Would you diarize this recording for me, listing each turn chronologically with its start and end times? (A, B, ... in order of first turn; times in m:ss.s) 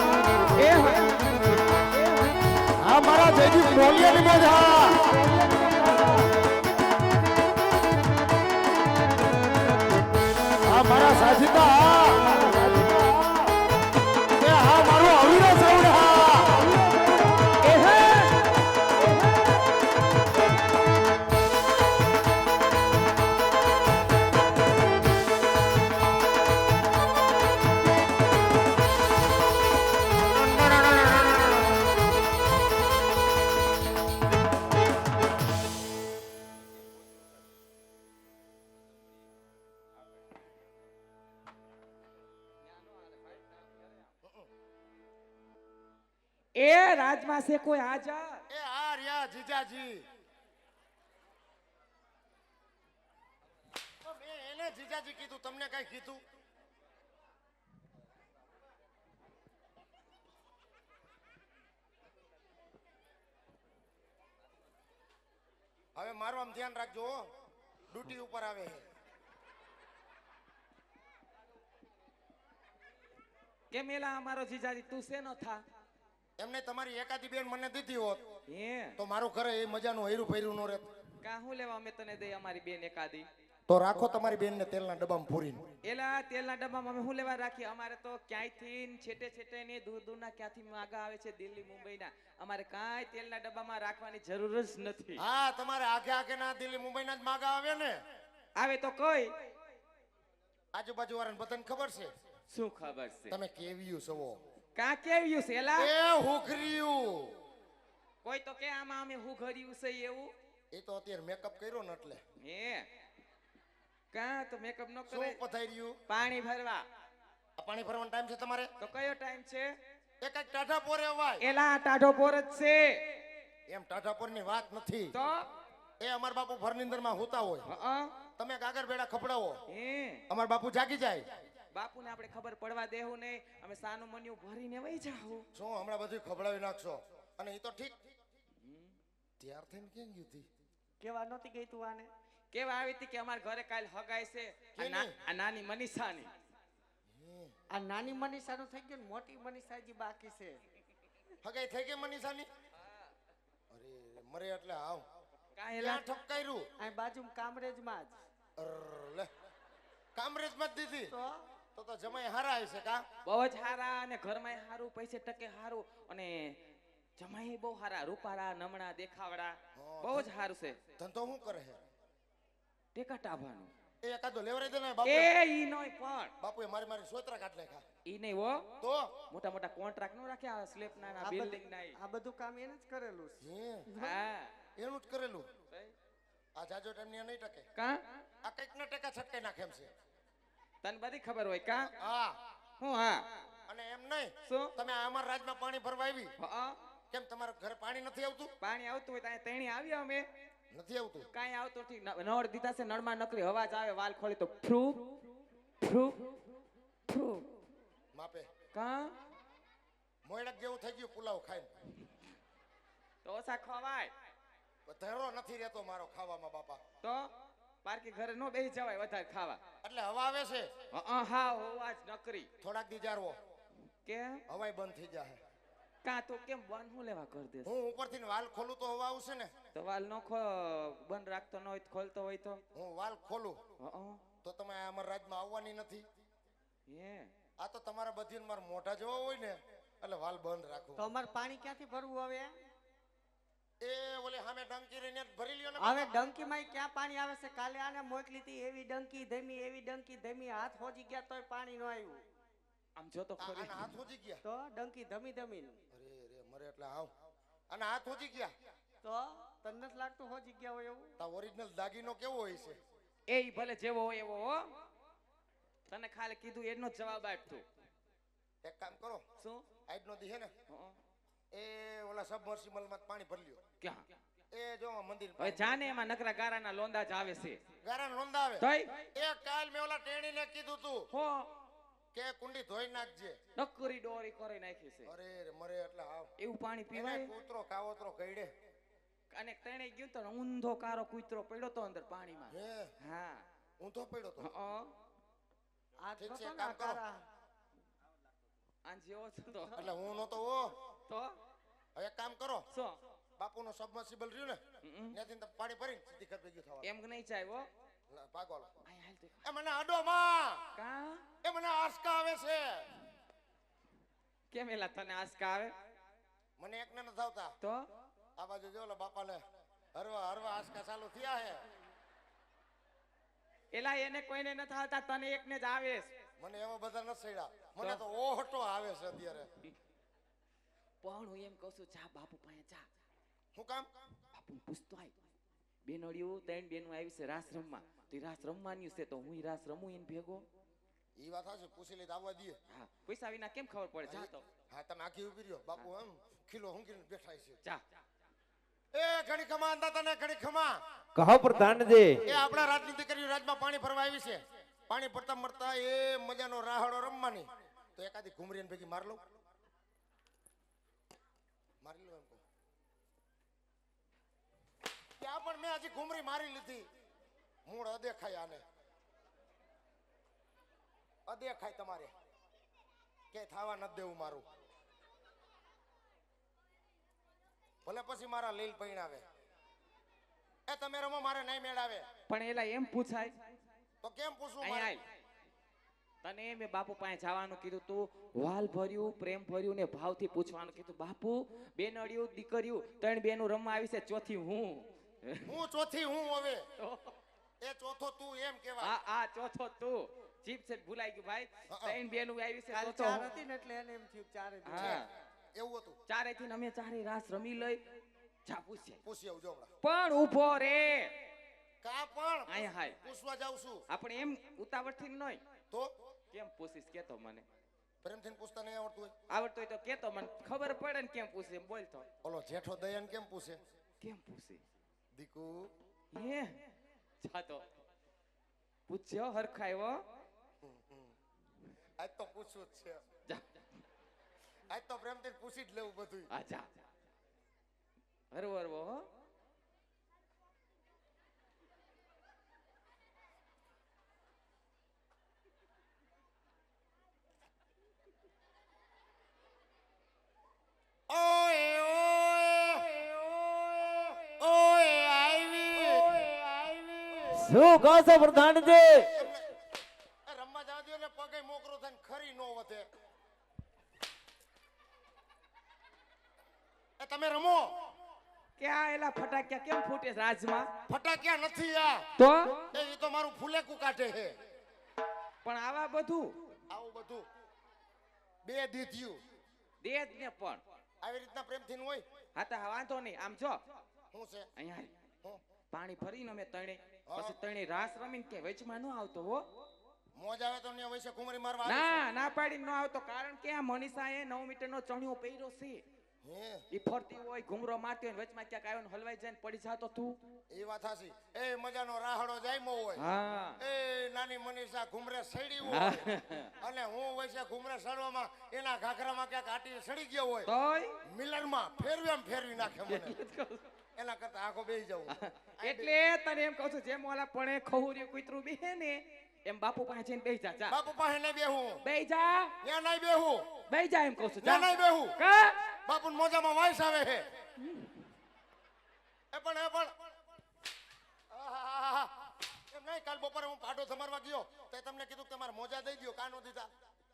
0:00.6-0:01.1 A
0:02.8-0:05.2 B
0:10.6-0:12.6 B
0:14.4-0:16.7 B
0:17.6-0:18.4 A
0:44.2-0:44.5 B
0:46.6-0:48.4 A
0:48.5-0:50.0 B
0:54.0-0:56.2 B
1:06.0-1:07.3 B
1:07.9-1:08.8 B
1:13.7-1:15.6 A
1:16.4-1:18.2 B
1:18.5-1:19.0 A
1:19.0-1:20.9 B
1:21.2-1:23.2 A
1:23.7-1:25.7 B
1:25.8-1:35.2 A
1:35.2-1:38.0 B
1:38.6-1:39.3 A
1:40.7-1:42.1 B
1:42.5-1:43.4 A
1:43.3-1:44.4 B
1:44.8-1:45.9 A
1:45.8-1:47.3 B
1:48.2-1:50.3 A
1:50.7-1:52.2 B
1:52.4-1:52.9 A
1:54.1-1:55.4 A
1:55.1-1:56.0 B
1:56.1-1:56.8 A
1:57.6-1:58.7 B
1:58.8-1:59.7 A
2:00.2-2:01.4 B
2:01.4-2:03.0 A
2:03.7-2:05.1 B
2:05.1-2:05.4 A
2:06.0-2:07.6 B
2:07.6-2:08.1 A
2:08.4-2:09.6 B
2:09.7-2:10.2 A
2:10.3-2:11.2 B
2:11.7-2:15.4 A
2:15.5-2:18.0 B
2:18.6-2:18.9 A
2:19.4-2:20.5 B
2:21.0-2:22.1 C
2:22.5-2:26.3 A
2:24.8-2:25.1 B
2:27.1-2:27.5 B
2:27.7-2:30.6 C
2:31.4-2:32.5 B
2:33.7-2:35.0 B
2:35.6-2:36.1 A
2:35.8-2:36.7 B
2:36.8-2:38.2 C
2:38.6-2:39.3 B
2:40.1-2:41.1 B
2:41.1-2:41.4 C
2:41.7-2:43.0 B
2:43.2-2:46.6 A
2:47.2-2:50.8 A
2:49.7-2:50.3 B
2:51.0-2:51.8 B
2:52.9-2:53.7 A
2:54.0-2:55.3 B
2:55.0-2:56.3 A
2:56.4-2:57.8 B
2:58.0-2:58.7 A
2:58.8-2:59.1 B
2:59.3-3:02.0 A
3:01.2-3:04.2 C
3:03.4-3:03.9 B
3:04.0-3:04.5 A
3:04.8-3:05.5 B
3:06.6-3:07.7 B
3:07.8-3:08.0 A
3:08.4-3:09.9 B
3:10.8-3:11.9 A
3:12.0-3:12.4 B
3:12.8-3:13.3 A
3:13.7-3:16.3 B
3:14.4-3:14.7 A
3:16.4-3:16.7 A
3:17.1-3:18.5 B
3:18.6-3:20.2 A
3:20.7-3:21.3 B
3:21.3-3:25.1 A
3:25.8-3:26.3 A
3:27.1-3:27.4 A
3:28.1-3:28.5 B
3:28.7-3:29.1 A
3:30.2-3:31.7 B
3:33.2-3:34.1 A
3:34.8-3:36.8 B
3:37.0-3:37.3 A
3:37.8-3:39.6 A
3:39.8-3:40.7 B
3:40.9-3:42.5 A
3:42.6-3:43.4 B
3:44.0-3:44.4 A
3:44.5-3:45.4 B
3:46.0-3:47.7 A
3:47.6-3:49.5 B
3:49.7-3:52.6 A
3:52.7-3:53.6 B
3:53.8-3:54.2 A
3:54.4-3:56.0 B
3:56.9-3:57.3 A
3:57.6-4:01.0 B
4:01.0-4:02.5 C
4:03.8-4:06.2 B
4:05.8-4:12.2 C
4:13.0-4:13.8 A
4:13.4-4:14.4 B
4:14.4-4:15.8 C
4:15.9-4:17.1 B
4:17.7-4:18.5 B
4:19.0-4:21.1 C
4:21.2-4:22.8 B
4:23.3-4:24.7 A
4:25.9-4:27.6 A
4:28.6-4:29.2 B
4:29.4-4:29.6 A
4:29.9-4:30.5 B
4:30.7-4:30.9 A
4:31.5-4:33.6 B
4:33.8-4:34.0 A
4:34.5-4:35.8 B
4:35.4-4:37.6 A
4:37.8-4:41.1 B
4:38.6-4:39.1 A
4:41.1-4:41.5 A
4:42.1-4:43.4 B
4:43.6-4:45.1 A
4:45.0-4:46.3 B
4:46.4-4:47.3 A
4:46.9-4:48.5 B
4:49.3-4:53.4 A
4:52.5-4:52.9 B
4:53.8-4:54.5 B
4:54.4-4:54.9 A
4:56.0-4:57.2 C
4:56.2-4:57.0 B
4:58.8-4:59.8 A
4:59.7-5:00.8 B
5:01.1-5:01.3 A
5:02.0-5:02.6 B
5:02.7-5:03.0 A
5:03.4-5:04.6 B
5:04.8-5:05.1 A
5:05.1-5:06.9 B
5:06.8-5:07.6 A
5:08.1-5:08.8 B
5:08.8-5:09.4 A
5:09.4-5:10.7 B
5:10.8-5:11.2 A
5:11.4-5:12.9 B
5:14.5-5:15.7 A
5:16.6-5:17.5 B
5:18.4-5:19.4 B
5:19.9-5:21.6 B
5:23.7-5:26.1 A
5:26.4-5:29.5 B
5:31.0-5:32.8 A
5:33.5-5:33.9 B
5:34.3-5:35.1 A
5:35.8-5:40.4 A
5:41.2-5:42.6 B
5:42.7-5:44.4 A
5:44.1-5:47.6 B
5:48.9-5:50.8 B
5:51.2-5:52.2 D
5:52.2-5:59.2 B
6:01.8-6:02.4 B
6:05.2-6:06.9 B
6:07.6-6:08.6 B
6:11.2-6:12.1 B
6:13.3-6:14.4 B
6:17.8-6:19.2 B
6:20.7-6:22.1 B
6:22.3-6:23.3 A
6:24.0-6:25.0 B
6:24.6-6:25.0 A
6:26.2-6:35.5 A
6:35.4-6:36.6 B
6:36.8-6:37.2 A
6:37.6-6:39.0 B
6:38.8-6:43.3 A
6:41.7-6:42.0 B
6:42.7-6:45.0 C
6:44.6-6:45.1 A
6:44.8-6:46.0 B
6:46.1-6:47.8 A
6:48.4-6:49.0 A
6:49.0-6:49.7 B
6:49.8-6:51.2 A
6:51.8-6:53.8 B
6:52.5-6:53.0 A
6:53.9-6:55.4 A
6:56.3-6:57.4 A
6:58.0-6:59.1 B
6:59.3-7:02.1 A
7:02.2-7:03.6 B
7:04.0-7:04.6 A
7:05.1-7:05.7 B
7:06.1-7:06.6 A
7:07.2-7:07.6 A
7:08.9-7:10.0 A
7:10.6-7:11.1 B
7:12.0-7:13.0 B
7:13.3-7:13.6 A
7:14.7-7:16.3 B
7:16.3-7:16.8 A
7:18.3-7:19.0 A
7:31.1-7:37.4 B
7:37.3-7:39.1 D
7:39.1-7:39.4 B
7:40.3-7:42.9 B
7:47.0-7:47.7 B
7:48.6-7:50.7 A
7:50.9-7:52.0 B
7:52.2-7:52.6 A
7:52.7-7:54.4 B
7:55.4-7:56.4 A
7:56.7-7:57.2 B
7:58.4-7:59.2 B
7:59.8-8:00.6 A
8:01.0-8:02.0 B
8:02.4-8:03.6 A
8:04.1-8:04.5 B
8:04.6-8:04.9 A
8:05.7-8:09.5 A
8:07.1-8:07.4 B
8:10.2-8:12.0 B
8:11.6-8:15.8 A
8:16.2-8:16.6 B
8:16.7-8:20.2 A
8:20.5-8:30.5 B
8:23.0-8:23.6 A
8:25.7-8:26.5 A
8:30.4-8:31.0 A
8:31.0-8:33.2 B
8:32.9-8:33.6 A
8:34.0-8:35.9 B
8:35.1-8:40.8 A
8:40.7-8:41.8 B
8:41.8-8:42.5 A
8:42.6-8:43.5 B
8:43.7-8:45.6 A
8:44.4-8:45.2 B
8:45.8-8:47.3 B
8:49.3-8:50.0 B
8:51.3-8:56.7 B